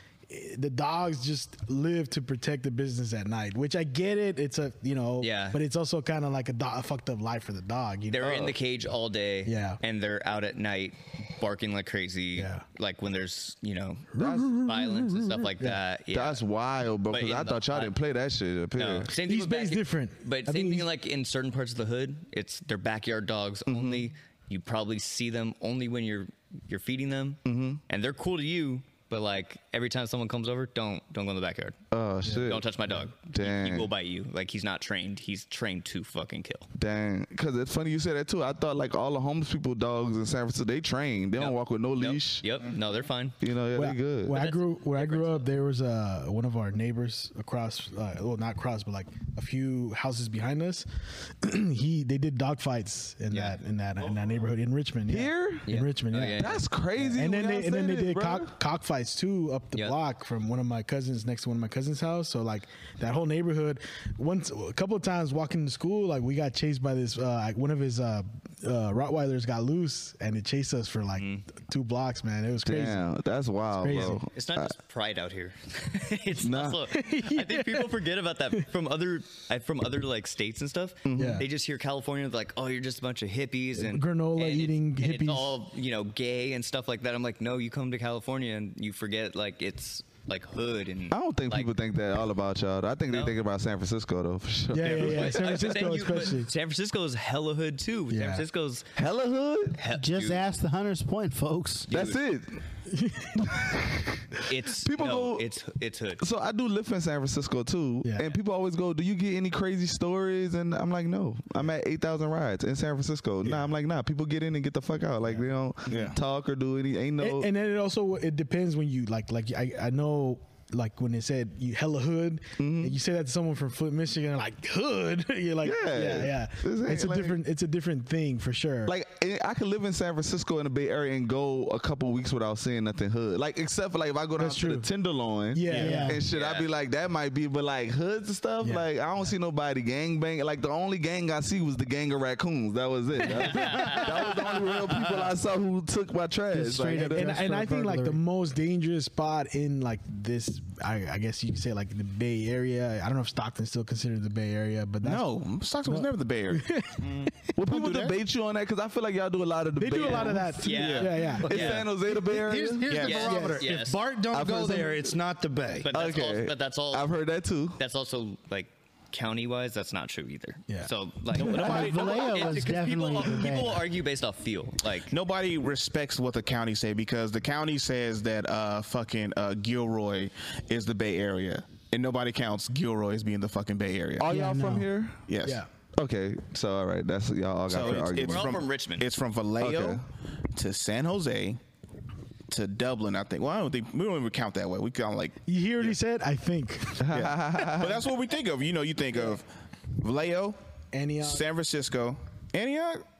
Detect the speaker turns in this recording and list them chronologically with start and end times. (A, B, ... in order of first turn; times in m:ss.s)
0:00.3-0:08.6 A
0:05.2-0:05.6 B
0:08.1-0:16.4 B
0:09.4-0:09.8 A
0:12.4-0:12.6 A
0:14.1-0:15.8 A
0:14.2-0:14.5 C
0:16.1-0:19.1 C
0:17.1-0:17.9 B
0:18.7-0:31.8 B
0:19.2-0:20.9 A
0:23.7-0:24.1 C
0:27.4-0:27.8 C
0:31.9-0:33.9 C
0:32.2-0:32.5 A
0:32.4-0:36.7 B
0:36.7-0:42.4 C
0:41.4-0:43.4 B
0:43.4-0:44.4 C
0:43.7-1:13.0 A
0:44.3-0:45.4 B
0:53.3-0:53.6 B
0:55.1-0:55.7 C
0:55.7-0:56.6 B
0:56.2-0:58.5 C
1:11.1-1:11.4 B
1:12.6-1:14.7 C
1:13.8-1:14.2 A
1:14.3-1:31.7 B
1:16.4-1:16.8 C
1:16.9-1:18.0 A
1:21.0-1:21.4 C
1:21.1-1:21.4 A
1:23.8-1:25.6 A
1:31.1-1:36.0 C
1:33.1-1:33.4 B
1:34.7-1:36.5 A
1:34.8-1:38.9 B
1:38.1-1:38.4 A
1:39.0-1:39.8 C
1:39.7-1:40.4 B
1:39.9-1:41.9 D
1:41.9-1:42.2 B
1:41.9-1:42.6 C
1:42.9-1:43.8 A
1:43.4-1:45.5 C
1:44.5-1:46.2 B
1:46.2-1:57.5 C
1:48.0-1:48.4 A
1:53.4-1:53.7 A
1:55.9-1:56.2 E
1:57.2-2:08.9 A
2:02.6-2:03.0 C
2:05.6-2:07.4 C
2:08.8-2:27.5 C
2:14.4-2:14.9 A
2:15.5-2:16.2 A
2:15.7-2:16.2 D
2:16.3-2:16.7 B
2:18.6-2:18.9 A
2:23.3-2:23.8 A
2:23.3-2:24.4 B
2:26.5-2:28.2 D
2:26.9-2:35.2 A
2:35.0-2:38.2 E
2:35.9-2:37.3 A
2:37.6-2:42.9 C
2:39.8-2:41.8 A
2:40.0-2:41.9 B
2:42.1-2:45.9 F
2:42.9-2:43.3 E
2:42.9-2:44.1 B
2:43.1-2:43.7 A
2:44.3-2:45.2 C
2:45.8-2:47.1 B
2:45.9-2:47.8 C
2:47.8-2:55.1 B
2:51.4-2:53.9 D
2:51.5-2:52.5 E
2:55.1-3:04.3 E
3:04.2-3:05.2 C
3:04.2-3:04.9 D
3:05.3-3:05.6 E
3:05.9-3:08.6 C
3:07.7-3:10.0 E
3:07.8-3:09.0 B
3:09.6-3:10.0 C
3:10.5-3:11.6 E
3:12.5-3:16.0 E
3:15.5-3:17.0 A
3:17.0-3:18.0 C
3:17.1-3:19.5 E
3:20.0-3:20.6 E
3:20.9-3:21.4 A
3:21.2-3:23.0 E